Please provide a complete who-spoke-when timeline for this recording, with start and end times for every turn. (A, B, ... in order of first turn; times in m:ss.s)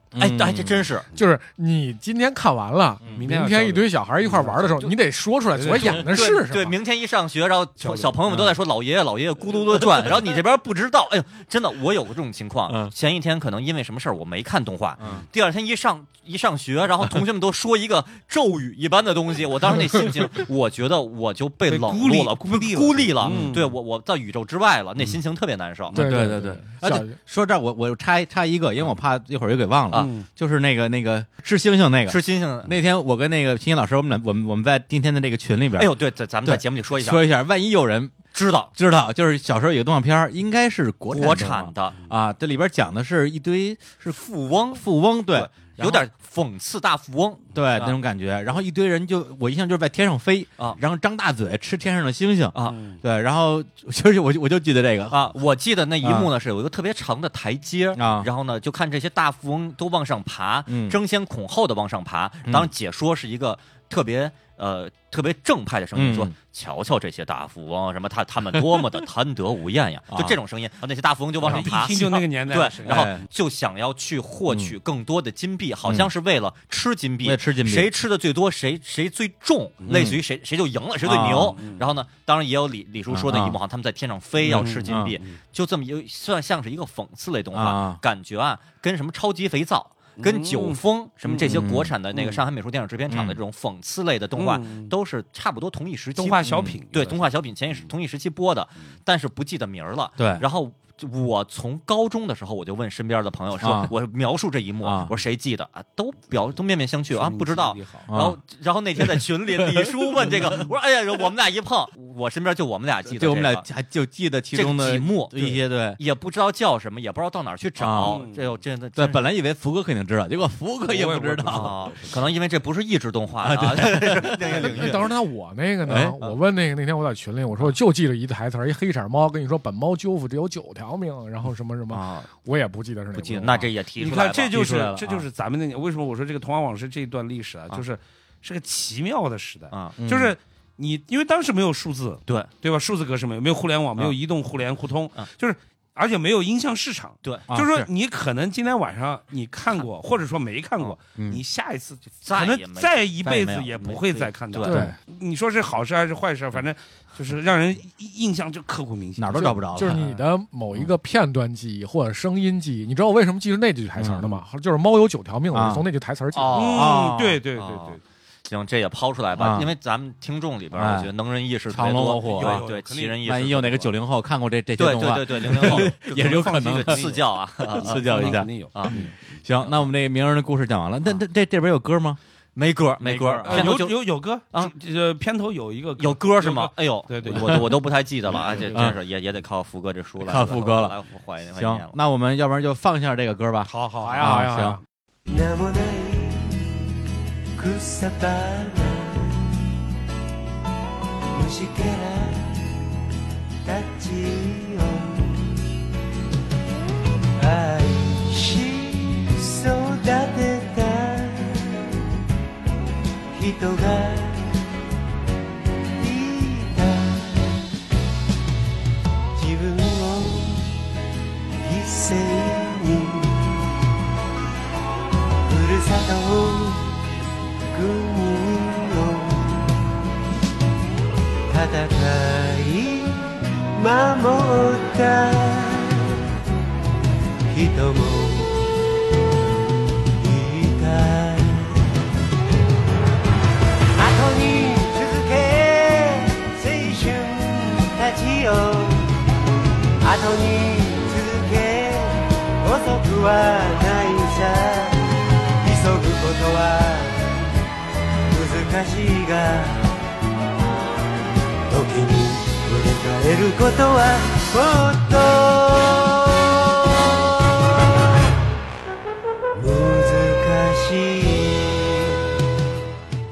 0:00.1-0:00.9 A
0:00.2-0:01.1 B
0:01.2-0:06.8 C
0:03.2-0:05.0 D
0:05.5-0:06.1 D
0:05.8-0:26.0 B
0:07.8-0:08.2 D
0:12.7-0:12.9 A
0:15.0-0:15.3 A
0:21.7-0:23.8 D
0:23.2-0:23.6 A
0:25.9-0:27.2 C
0:25.9-0:38.2 A
0:29.9-0:30.2 B
0:29.9-0:30.3 D
0:32.1-0:32.8 B
0:35.8-0:37.2 B
0:38.3-0:38.7 B
0:38.7-0:44.2 A
0:41.1-0:42.0 B
0:44.0-0:48.0 B
0:44.7-0:46.1 A
0:47.5-0:55.3 A
0:52.5-0:52.8 B
0:52.7-0:53.0 D
0:55.1-1:53.7 B
0:56.0-0:56.3 A
0:58.0-0:58.3 A
1:00.7-1:01.0 A
1:06.0-1:06.3 A
1:10.1-1:10.4 A
1:11.4-1:12.0 A
1:11.4-1:13.2 D
1:12.8-1:13.2 A
1:14.5-1:14.8 A
1:17.2-1:17.9 A
1:19.8-1:20.1 D
1:19.9-1:20.2 A
1:21.0-1:21.6 A
1:21.3-1:21.9 D
1:23.1-1:23.6 A
1:24.4-1:25.4 D
1:24.5-1:25.2 A
1:27.5-1:28.0 A
1:30.2-1:32.4 D
1:31.5-1:31.9 A
1:33.1-1:33.4 A
1:34.4-1:34.9 D
1:36.2-1:37.9 D
1:36.5-1:36.8 A
1:40.2-1:40.4 A
1:43.6-1:43.9 A
1:44.8-1:45.2 A
1:47.1-1:48.1 D
1:48.1-1:48.4 A
1:49.2-1:50.6 A
1:53.1-1:56.0 A
1:54.5-1:59.3 B
1:57.8-1:58.2 A
1:58.0-1:58.5 D
1:59.0-2:01.8 A
2:00.9-2:02.2 D
2:01.5-2:05.1 B
2:03.4-2:04.9 A
2:04.7-2:13.7 C
2:05.9-2:06.2 A
2:11.9-2:12.3 B
2:13.1-2:14.7 B
2:14.0-2:39.6 D
2:14.5-2:15.3 A
2:19.7-2:20.0 B
2:20.0-2:20.3 A
2:27.5-2:27.9 A
2:31.2-2:31.4 A
2:32.2-2:34.8 B
2:33.2-2:35.0 A
2:34.6-2:35.0 C
2:39.2-2:40.2 A
2:39.7-2:46.6 C
2:44.0-2:44.3 A
2:45.5-2:45.9 A
2:46.3-2:53.9 B
2:46.5-2:48.0 D
2:46.7-2:47.4 A
2:49.4-2:49.7 A
2:50.7-2:51.1 A
2:51.7-2:52.6 A
2:52.2-2:53.2 D
2:53.2-2:57.1 A
2:54.8-2:59.1 B
2:55.5-2:59.2 D
2:57.6-3:02.2 A
3:02.6-3:04.7 B
3:03.0-3:03.7 A
3:03.4-3:08.8 D
3:06.0-3:12.0 B
3:07.3-3:07.6 A
3:08.7-3:09.0 A
3:10.2-3:11.0 A
3:11.6-3:14.8 A
3:13.7-3:14.4 D
3:14.0-3:14.8 C
3:15.3-3:16.7 E
3:17.6-3:19.7 E
3:21.3-3:22.8 E
3:23.6-3:25.6 E
3:27.4-3:31.9 E
3:33.3-3:34.6 E
3:36.0-3:37.6 E
3:39.4-3:40.8 E
3:41.6-3:43.5 E
3:45.5-3:47.0 E
3:47.7-3:49.8 E
3:51.5-3:56.1 E
3:57.5-3:58.8 E
4:00.2-4:01.8 E
4:04.0-4:09.1 E
4:10.0-4:15.0 E
4:15.6-4:17.4 E
4:18.3-4:19.9 E
4:21.7-4:27.0 E
4:29.6-4:32.1 E